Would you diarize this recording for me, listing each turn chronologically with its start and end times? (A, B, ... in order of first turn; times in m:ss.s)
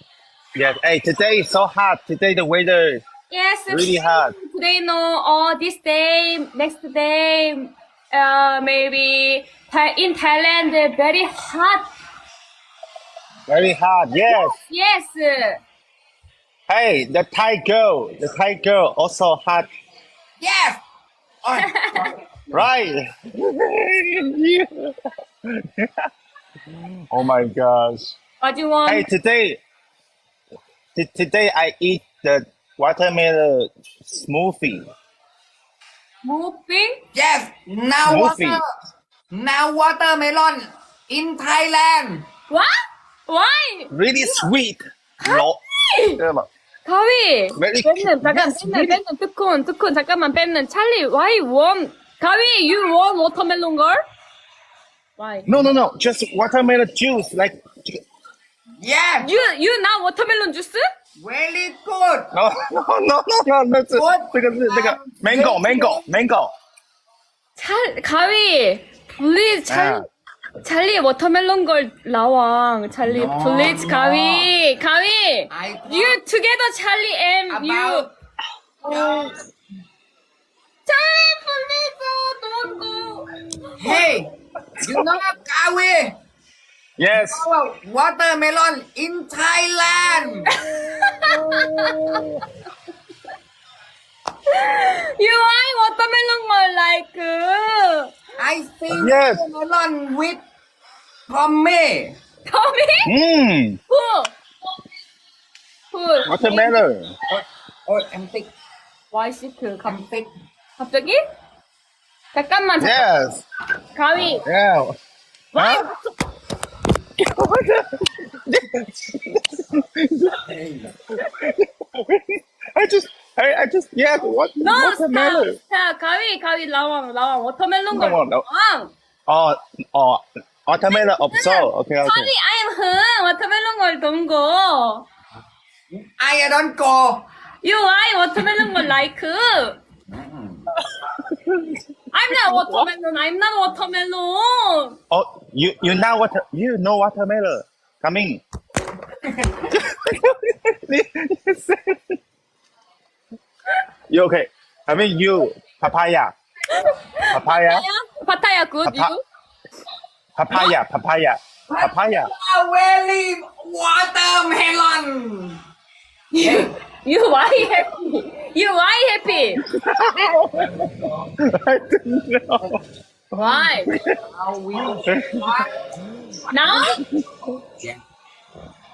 0:00.5-0:03.0 A
0:03.3-0:11.9 B
0:03.7-0:04.3 A
0:13.5-0:14.5 A
0:14.2-0:15.6 B
0:16.7-0:19.7 A
0:20.4-0:20.8 C
0:21.4-0:22.6 C
0:21.6-0:22.0 B
0:22.5-0:24.9 A
0:25.6-0:25.9 A
0:27.1-0:28.2 A
0:28.4-0:29.0 B
0:28.8-0:29.6 A
0:30.9-0:34.9 A
0:36.2-0:37.0 B
0:37.1-0:38.7 C
0:38.0-0:38.6 A
0:39.3-0:42.2 C
0:43.3-0:44.5 B
0:43.9-0:45.6 A
0:45.2-0:46.2 B
0:46.1-0:46.5 A
0:46.8-0:54.0 B
0:47.6-0:48.2 A
0:48.3-0:49.0 C
0:55.2-0:55.5 B
0:55.5-0:58.0 A
0:58.8-0:59.3 C
0:59.2-1:00.8 B
1:01.2-1:02.3 C
1:02.3-1:06.5 A
1:03.9-1:06.0 C
1:07.6-1:10.0 B
1:09.7-1:10.0 A
1:10.6-1:18.1 B
1:13.0-1:14.5 C
1:15.5-1:16.2 C
1:17.5-1:18.1 C
1:18.8-1:19.3 B
1:18.8-1:19.3 C
1:20.8-1:23.7 B
1:23.8-1:24.3 C
1:24.8-1:25.1 A
1:24.8-1:26.1 C
1:27.0-1:27.5 A
1:27.1-1:30.5 C
1:30.5-1:32.2 B
1:31.1-1:32.3 A
1:34.5-1:38.1 B
1:38.4-1:40.4 C
1:38.9-1:39.4 A
1:41.3-1:42.2 C
1:42.4-1:43.1 B
1:43.0-1:43.8 A
1:43.9-1:44.3 B
1:45.9-1:46.8 B
1:46.2-1:47.1 A
1:47.3-1:48.5 C
1:49.1-1:50.0 B
1:49.8-1:50.3 C
1:50.8-1:51.2 B
1:52.3-1:53.0 B
1:52.8-1:53.4 A
1:53.9-1:54.4 B
1:54.2-1:55.0 A
1:55.5-1:55.9 B
1:55.5-1:55.9 A
1:57.2-2:00.4 A
2:00.4-2:00.9 C
2:01.2-2:05.6 A
2:04.6-2:08.9 B
2:07.9-2:08.4 A
2:09.3-2:12.3 A
2:10.9-2:15.0 B
2:15.9-2:17.2 C
2:17.6-2:19.8 B
2:18.4-2:18.8 C
2:20.1-2:20.6 C
2:21.1-2:21.8 A
2:22.1-2:25.0 B
2:22.4-2:22.9 A
2:25.1-2:28.4 A
2:29.7-2:32.1 A
2:34.1-2:36.3 A
2:36.7-2:39.2 B
2:37.3-2:37.8 A
2:38.8-2:39.1 A
2:40.4-2:42.3 A
2:41.7-2:45.6 C
2:46.3-2:49.6 B
2:46.4-2:46.7 C
2:49.7-2:50.9 A
2:51.4-2:52.7 A
2:53.3-2:53.9 B
2:53.8-2:54.1 A
2:54.2-2:55.7 C
2:55.0-2:55.5 A
2:56.5-2:57.0 B
2:56.7-2:57.4 A